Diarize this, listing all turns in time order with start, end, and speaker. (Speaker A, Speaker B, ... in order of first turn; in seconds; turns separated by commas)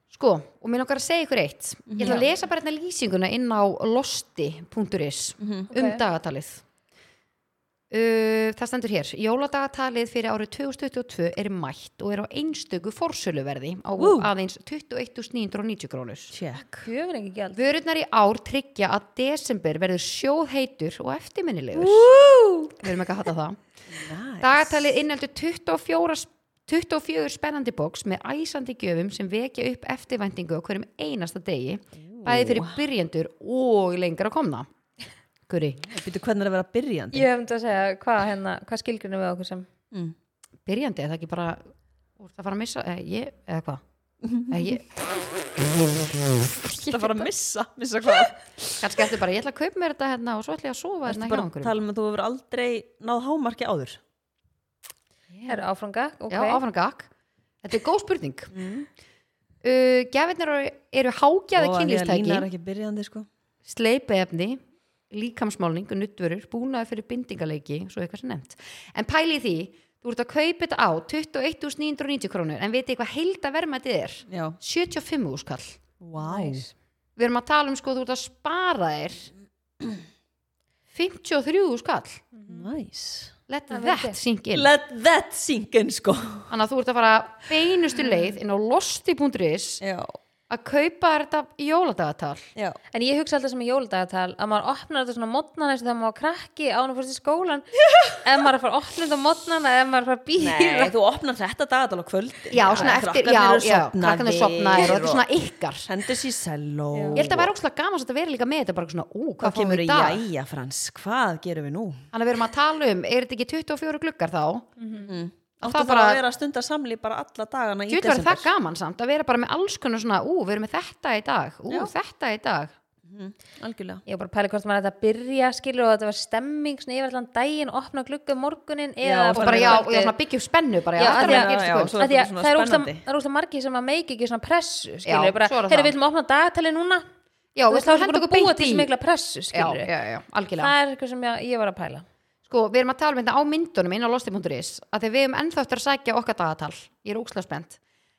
Speaker A: 0.1-6.6, Speaker B: 1.9-2.3, Speaker C: 2.0-2.3, Speaker B: 5.4-5.7, Speaker C: 5.7-6.0, Speaker A: 7.9-16.4, Speaker B: 14.0-14.3, Speaker B: 16.3-16.9, Speaker C: 16.8-17.6, Speaker A: 17.6-22.1, Speaker B: 21.7-22.8, Speaker A: 22.8-23.6, Speaker B: 23.9-24.7, Speaker A: 24.4-34.7, Speaker B: 32.0-32.8, Speaker A: 35.5-35.9, Speaker B: 35.9-37.3, Speaker C: 37.1-39.7, Speaker A: 40.7-43.8, Speaker B: 44.2-44.8, Speaker A: 44.5-45.1, Speaker A: 46.0-47.3, Speaker B: 46.6-48.9, Speaker A: 48.8-51.8, Speaker B: 51.1-54.0, Speaker A: 55.3-55.6, Speaker C: 55.5-56.6, Speaker A: 56.3-57.1, Speaker A: 57.6-58.5, Speaker B: 58.5-58.9, Speaker A: 59.6-62.5, Speaker B: 61.6-63.3, Speaker A: 63.6-75.8, Speaker B: 74.3-74.6, Speaker B: 76.0-76.7, Speaker C: 76.2-76.7, Speaker A: 77.2-79.3, Speaker A: 80.9-82.3, Speaker C: 82.3-82.7, Speaker B: 82.5-83.3, Speaker A: 83.5-84.7, Speaker C: 83.7-84.2, Speaker B: 84.5-86.5, Speaker A: 86.5-89.8, Speaker B: 89.8-90.2, Speaker A: 90.5-92.5, Speaker C: 92.9-97.7, Speaker C: 98.2-100.9, Speaker B: 100.4-105.3, Speaker A: 102.5-105.9, Speaker B: 105.9-107.5, Speaker C: 106.9-107.2, Speaker A: 107.2-110.3, Speaker B: 109.4-112.1, Speaker A: 112.1-114.7, Speaker C: 114.8-115.2, Speaker B: 115.0-118.5, Speaker A: 115.6-116.2, Speaker A: 117.9-122.7, Speaker B: 123.1-124.0, Speaker C: 124.1-130.1, Speaker B: 129.0-129.8, Speaker A: 129.3-132.0, Speaker C: 131.0-137.1, Speaker B: 131.0-133.0, Speaker A: 135.1-135.9, Speaker A: 137.6-138.9, Speaker C: 137.7-139.9, Speaker A: 139.5-140.7, Speaker C: 140.6-142.1, Speaker A: 142.5-147.8